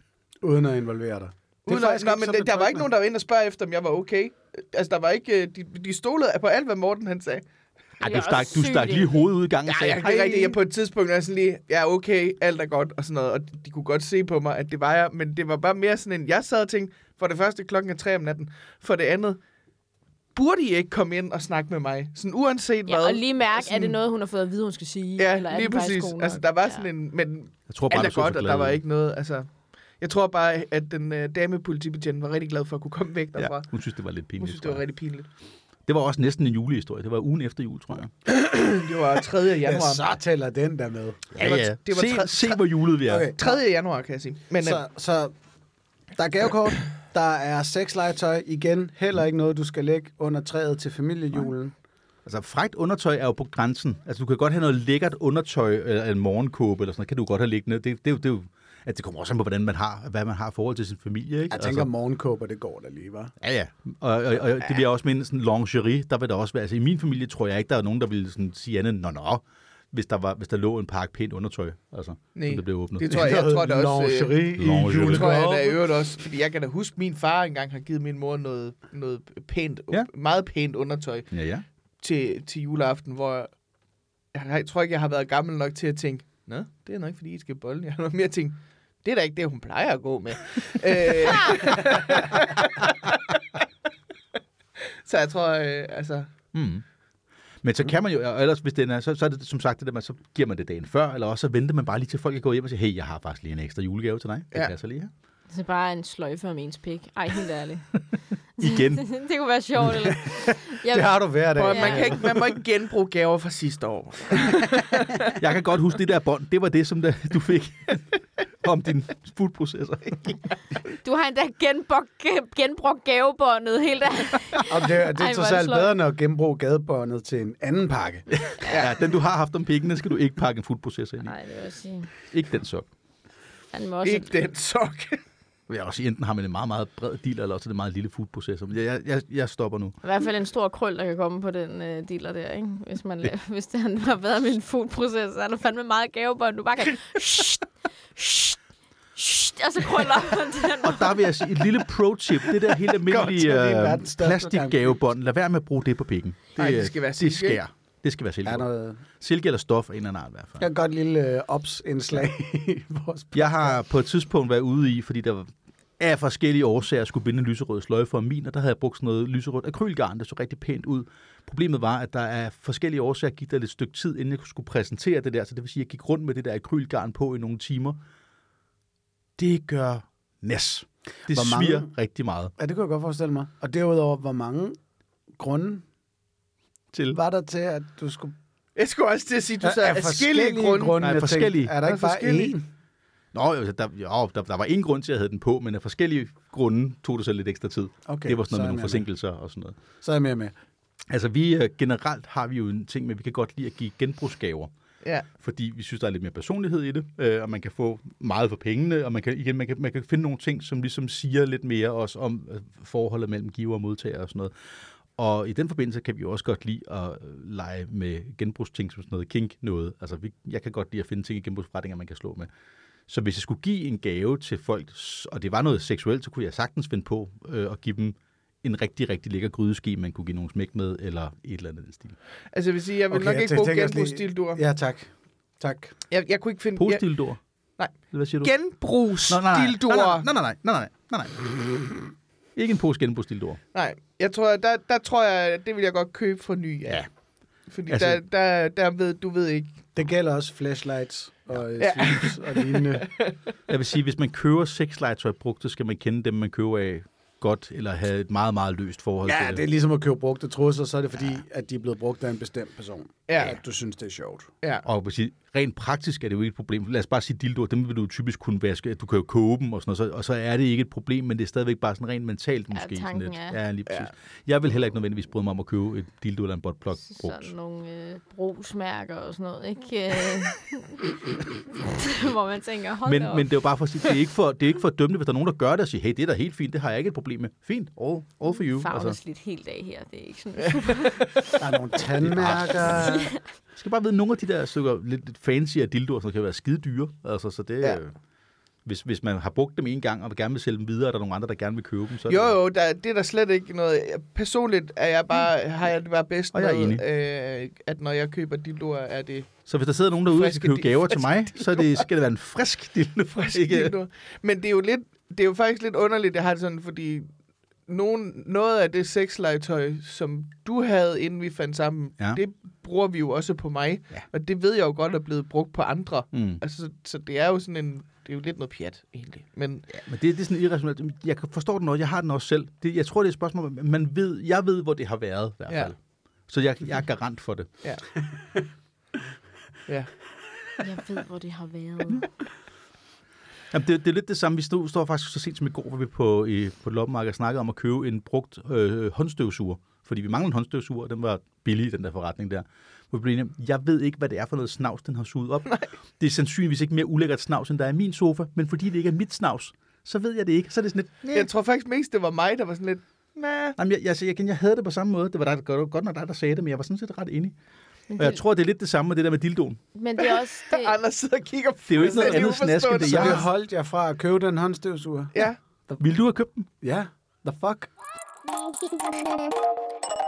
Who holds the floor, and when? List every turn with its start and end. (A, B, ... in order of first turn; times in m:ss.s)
0:00.4-0:02.9 A
0:01.7-0:07.4 B
0:08.0-0:09.2 C
0:08.0-0:10.6 D
0:09.7-0:19.4 B
0:20.4-0:24.0 B
0:22.9-0:26.9 C
0:25.2-0:29.5 B
0:27.7-0:28.8 D
0:30.0-0:33.7 B
0:33.4-0:34.8 D
0:34.4-0:35.3 B
0:35.9-0:38.1 D
0:38.3-0:38.9 A
0:38.7-0:40.0 B
0:39.6-0:41.2 A
0:41.4-0:43.3 D
0:41.4-0:44.8 B
0:43.1-0:43.6 A
0:44.6-0:45.3 A
0:46.2-0:51.7 A
0:52.3-1:01.9 D
1:01.5-1:03.3 A
1:03.4-1:13.4 D
1:12.4-1:21.3 B
1:13.0-1:15.8 A
1:14.6-1:15.3 D
1:21.3-1:21.6 D
1:22.0-1:23.5 B
1:24.3-1:33.4 B
1:35.0-1:36.3 B
1:36.5-1:36.8 D
1:37.6-1:45.1 D
1:45.5-1:48.0 C
1:48.6-1:49.2 D
1:48.6-1:52.2 C
1:50.2-1:52.5 A
1:51.6-1:55.3 B
1:55.3-2:00.4 D
2:00.9-2:06.0 C
2:04.7-2:08.5 A
2:08.6-2:08.9 C
2:08.6-2:11.3 D
2:11.2-2:12.1 C
2:12.3-2:12.9 D
2:13.7-2:14.3 C
2:14.0-2:15.2 B
2:15.7-2:20.0 D
2:20.0-2:28.6 C
2:29.2-2:31.3 C
2:30.8-2:38.7 D
2:33.0-2:35.0 A
2:36.6-2:37.6 B
2:38.4-2:39.0 A
2:39.2-2:40.6 D
2:40.6-2:43.8 A
2:43.3-2:58.0 D
2:59.4-3:02.5 D
3:01.3-3:01.9 A
3:02.6-3:04.8 A
3:05.4-3:05.8 A
3:06.9-3:07.2 D
3:07.1-3:08.3 A
3:08.8-3:11.0 B
3:09.6-3:12.7 A
3:11.0-3:11.8 D
3:11.8-3:12.6 B
3:13.3-3:19.8 D
3:18.1-3:19.0 A
3:20.0-3:20.5 A
3:21.1-3:24.7 D
3:25.0-3:25.3 B
3:25.4-3:34.5 D
3:35.2-3:42.5 D
3:43.1-3:52.2 D
3:52.5-3:54.6 B
3:53.1-3:55.9 A
3:56.1-3:57.1 B
3:56.8-3:57.4 D
3:57.8-4:00.3 B
3:58.1-3:58.5 D
3:59.3-4:01.6 D
4:02.6-4:03.6 D
4:03.7-4:07.1 B
4:07.7-4:09.8 B
4:07.9-4:08.2 D
4:10.0-4:13.1 A
4:11.8-4:13.4 B
4:13.7-4:19.6 D
4:19.2-4:24.5 A
4:23.3-4:23.6 B
4:24.8-4:37.5 D
4:32.7-4:33.6 C
4:33.9-4:34.1 B
4:37.1-4:41.1 C
4:41.8-4:43.5 C
4:43.0-4:49.2 D
4:48.6-4:51.3 C
4:51.6-4:53.3 A
4:52.2-4:53.2 D
4:53.0-4:53.4 C
4:53.8-4:58.2 D
4:58.8-5:02.6 D
5:02.3-5:09.6 B
5:06.5-5:07.0 D
5:09.7-5:14.0 D
5:10.3-5:12.0 B
5:13.4-5:17.3 B
5:17.9-5:29.9 B
5:26.3-5:26.6 D
5:29.9-5:36.0 D
5:36.5-5:37.7 D
5:40.8-5:42.3 C
5:43.7-6:01.5 D
6:01.3-6:03.8 B
6:03.8-6:07.5 D
6:08.1-6:08.4 C
6:08.2-6:09.8 D
6:10.0-6:11.0 C
6:10.2-6:13.5 B
6:11.9-6:13.4 D
6:13.0-6:15.3 A
6:16.0-6:16.7 D
6:16.8-6:17.9 A